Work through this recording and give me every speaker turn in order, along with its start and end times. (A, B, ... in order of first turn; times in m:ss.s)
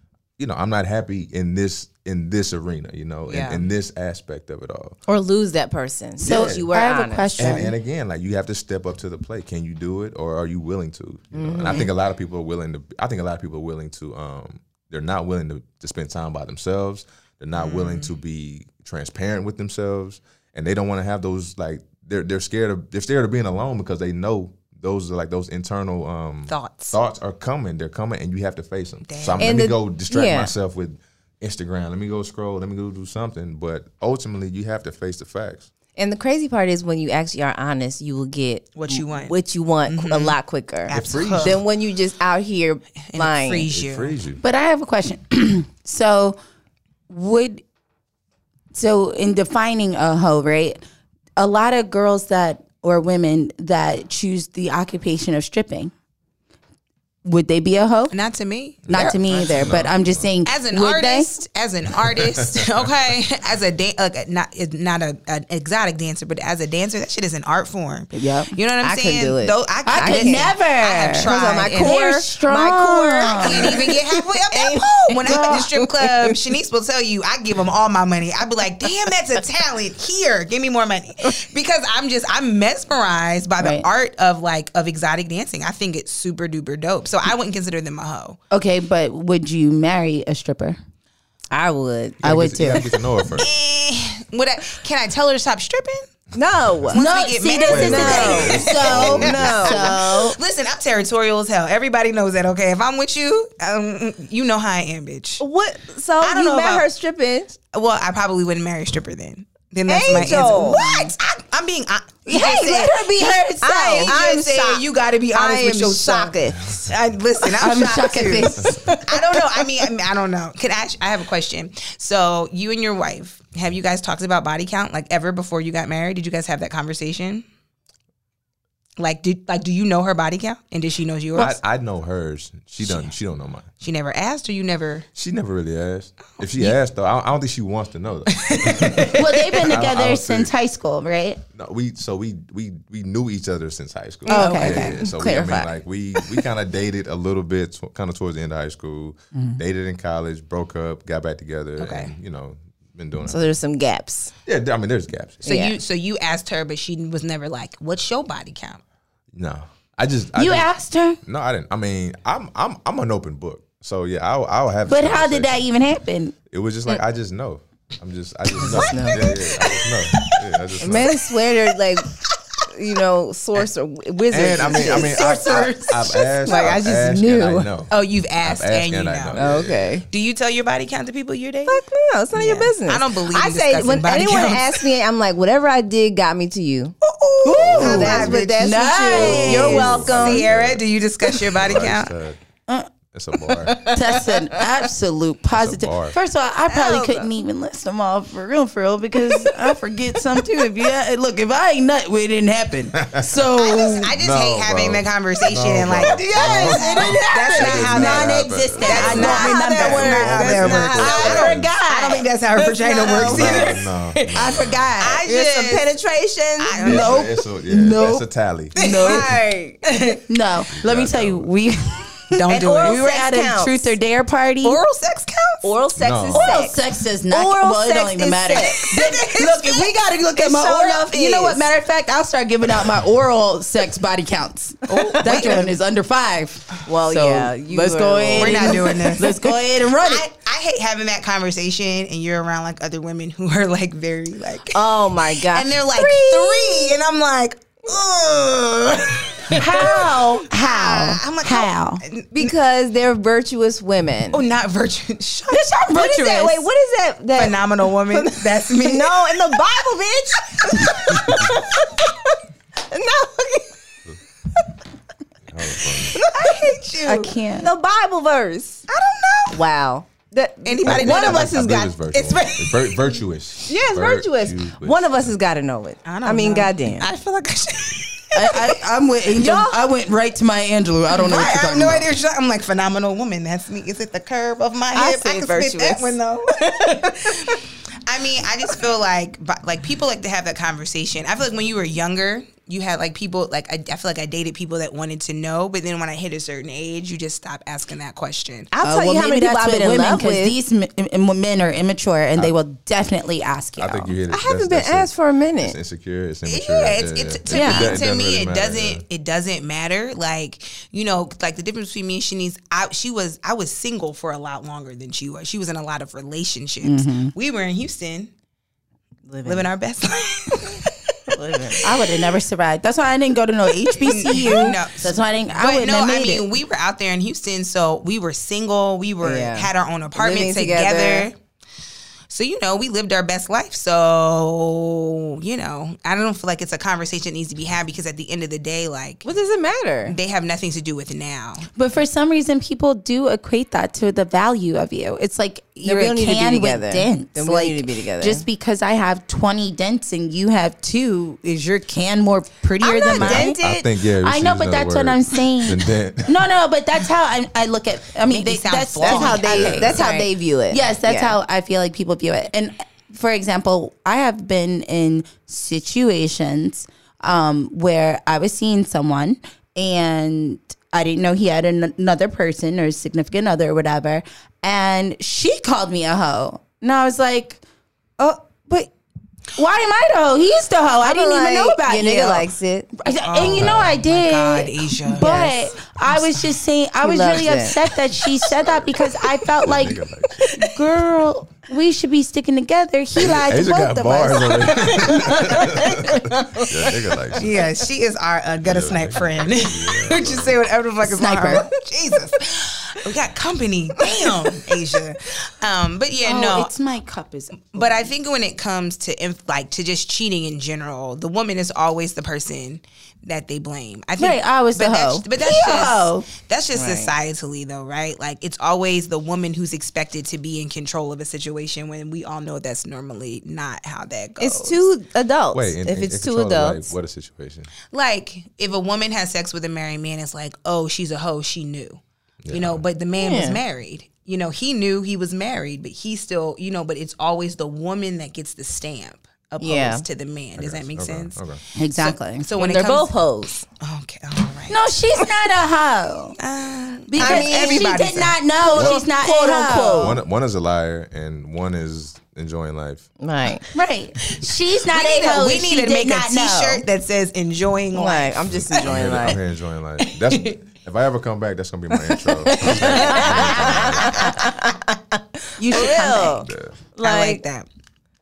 0:00.4-0:05.0 A
0:03.3-0:03.7 B
0:05.1-0:07.7 C
0:06.2-0:06.7 A
0:06.2-0:07.7 D
0:07.4-0:35.7 A
0:11.3-0:11.9 C
0:17.5-0:18.1 B
0:26.5-0:27.0 B
0:29.1-0:29.6 B
0:29.4-0:30.5 C
0:36.0-0:43.7 C
0:38.7-0:39.3 B
0:39.9-0:40.4 B
0:40.9-0:41.6 B
0:40.9-0:41.6 A
0:43.1-0:44.2 B
0:43.7-0:44.4 A
0:44.4-0:46.4 D
0:47.1-0:47.6 D
0:48.7-0:50.8 D
0:51.4-0:55.9 D
0:57.2-0:58.2 D
0:58.1-0:59.8 B
0:58.9-1:00.3 A
0:58.9-1:01.3 D
1:00.4-1:12.0 B
1:02.1-1:02.6 A
1:08.1-1:08.5 D
1:08.8-1:10.5 C
1:09.9-1:13.8 D
1:11.2-1:16.4 C
1:13.3-1:28.4 B
1:15.2-1:15.6 D
1:23.6-1:23.9 D
1:28.5-1:30.8 D
1:31.5-1:32.2 C
1:32.2-1:33.5 A
1:32.2-1:32.9 D
1:33.4-1:36.1 B
1:36.4-1:37.0 C
1:36.9-1:45.4 B
1:36.9-1:40.4 D
1:37.6-1:39.7 A
1:37.7-1:40.0 C
1:45.4-1:47.6 C
1:46.2-1:46.9 B
1:47.7-1:53.1 B
1:49.9-1:50.8 C
1:50.3-1:51.1 D
1:52.3-1:54.2 D
1:53.5-1:56.8 C
1:54.0-2:07.4 B
1:57.6-1:59.0 D
1:58.6-1:59.0 C
2:09.0-2:11.6 B
2:11.4-2:13.7 A
2:12.8-2:13.1 B
2:13.8-2:15.1 B
2:15.2-2:20.5 A
2:16.5-2:16.8 B
2:18.3-2:19.8 B
2:19.2-2:21.4 D
2:21.5-2:33.5 A
2:24.3-2:25.0 B
2:24.3-2:25.7 C
2:24.3-2:24.9 D
2:29.3-2:29.6 D
2:31.8-2:32.1 B
2:33.2-2:34.3 C
2:34.5-2:35.5 A
2:35.4-2:38.8 B
2:35.4-2:35.8 C
2:39.3-2:40.7 A
2:40.4-2:41.2 D
2:41.2-2:45.6 A
2:44.9-2:46.4 D
2:46.5-2:51.2 A
2:48.6-2:49.2 C
2:50.8-2:52.1 C
2:52.7-2:55.2 C
2:54.3-3:00.0 A
2:54.8-2:56.6 D
2:56.4-2:57.7 C
2:57.9-2:59.4 B
2:59.3-3:00.1 C
3:00.1-3:01.8 B
3:01.7-3:07.0 C
3:02.3-3:04.8 B
3:07.0-3:12.1 B
3:07.4-3:09.9 D
3:07.5-3:08.3 A
3:07.7-3:10.5 C
3:09.1-3:10.8 A
3:11.5-3:12.4 A
3:13.1-3:13.9 A
3:13.7-3:14.5 C
3:13.9-3:24.1 D
3:15.5-3:16.2 A
3:16.7-3:17.3 C
3:23.0-3:23.5 A
3:23.5-3:35.9 B
3:24.2-3:31.7 A
3:26.1-3:27.4 C
3:26.3-3:32.3 D
3:28.8-3:31.5 C
3:32.6-3:33.8 C
3:33.1-3:34.9 A
3:34.4-3:35.2 D
3:35.2-3:36.8 C
3:36.6-3:37.3 B
3:36.8-3:38.2 D
3:36.8-3:38.8 A
3:38.8-3:39.3 D
3:38.8-3:39.3 B
3:38.8-3:39.8 C
3:39.8-3:40.2 B
3:40.3-3:44.8 D
3:40.7-3:41.5 A
3:42.3-3:43.0 B
3:42.7-3:44.0 C
3:44.6-3:45.7 B
3:45.6-3:49.0 C
3:46.0-3:46.7 A
3:46.3-4:00.3 D
3:48.6-3:50.8 B
3:50.4-3:51.6 C
3:54.9-3:55.8 B
3:54.9-3:55.7 C
3:56.8-3:59.2 C
3:58.4-4:12.5 B
4:04.7-4:07.0 C
4:09.5-4:12.0 D
4:12.3-4:14.4 C
4:14.3-4:15.9 B
4:15.5-4:16.7 D
4:15.9-4:23.7 C
4:17.4-4:19.7 B
4:20.5-4:20.9 B
4:25.5-4:26.2 A
4:26.1-4:26.6 C
4:26.2-4:27.4 B
4:27.1-4:27.7 D
4:27.6-4:28.8 C
4:28.9-4:29.6 B
4:29.5-4:31.6 C
4:30.6-4:33.2 B
4:30.9-4:35.3 A
4:33.7-4:37.1 C
4:36.0-4:38.8 B
4:38.3-4:42.1 D
4:39.4-4:39.8 C
4:41.1-4:58.7 B
4:44.9-4:46.2 C
4:58.7-5:00.6 C
4:58.8-5:04.1 D
5:03.8-5:09.0 A
5:04.3-5:05.8 C
5:06.4-5:18.3 B
5:07.5-5:08.0 D
5:16.8-5:17.3 D
5:19.3-5:19.7 C
5:19.4-5:20.9 B
5:21.3-5:21.8 C
5:21.7-5:22.4 B
5:21.8-5:26.4 D
5:23.9-5:31.4 B
5:29.2-5:31.3 C
5:32.3-5:39.3 B
5:39.2-5:40.2 C
5:40.1-5:41.7 B
5:41.8-5:53.6 D
5:45.8-5:48.5 C
5:52.8-5:53.9 C
5:53.1-5:56.5 A
5:54.2-6:17.6 D
5:58.3-6:00.3 B
5:59.0-6:01.4 C
5:59.6-6:00.0 A
6:18.2-6:18.9 D
6:19.5-6:22.5 D
6:21.0-6:22.9 C
6:23.0-6:30.0 D
6:23.1-6:26.5 B
6:23.5-6:24.0 A
6:25.2-6:25.5 C
6:27.0-6:27.8 C
6:28.6-6:28.9 A
6:29.6-6:30.5 A
6:30.5-6:35.3 D
6:33.2-6:37.5 A
6:35.1-6:36.7 C
6:37.4-6:46.7 B
6:38.6-6:40.6 A
6:41.0-6:41.7 D
6:44.2-6:44.7 C
6:46.2-6:48.1 D
6:47.7-7:04.9 B
6:54.2-6:56.3 D
6:56.7-6:57.1 C
7:04.4-7:07.0 C
7:05.5-7:07.7 A
7:07.9-7:23.1 B
7:12.4-7:12.8 A
7:13.2-7:13.6 C
7:19.6-7:20.0 C
7:20.6-7:21.6 A
7:21.8-7:22.5 D
7:22.6-7:23.6 C
7:23.8-7:24.8 B
7:24.7-7:26.4 D
7:26.4-7:28.9 B
7:27.1-7:30.2 D
7:27.2-7:28.1 C
7:28.6-7:30.2 C
7:30.0-7:33.1 A
7:33.2-7:33.7 C
7:33.7-7:36.8 D
7:34.3-7:39.4 B
7:38.0-7:39.4 C
7:38.5-7:44.3 A
7:40.0-7:40.6 B
7:42.4-7:47.4 C
7:42.6-7:44.5 B
7:45.6-7:46.5 D
7:46.4-7:46.8 A
7:47.0-7:47.7 B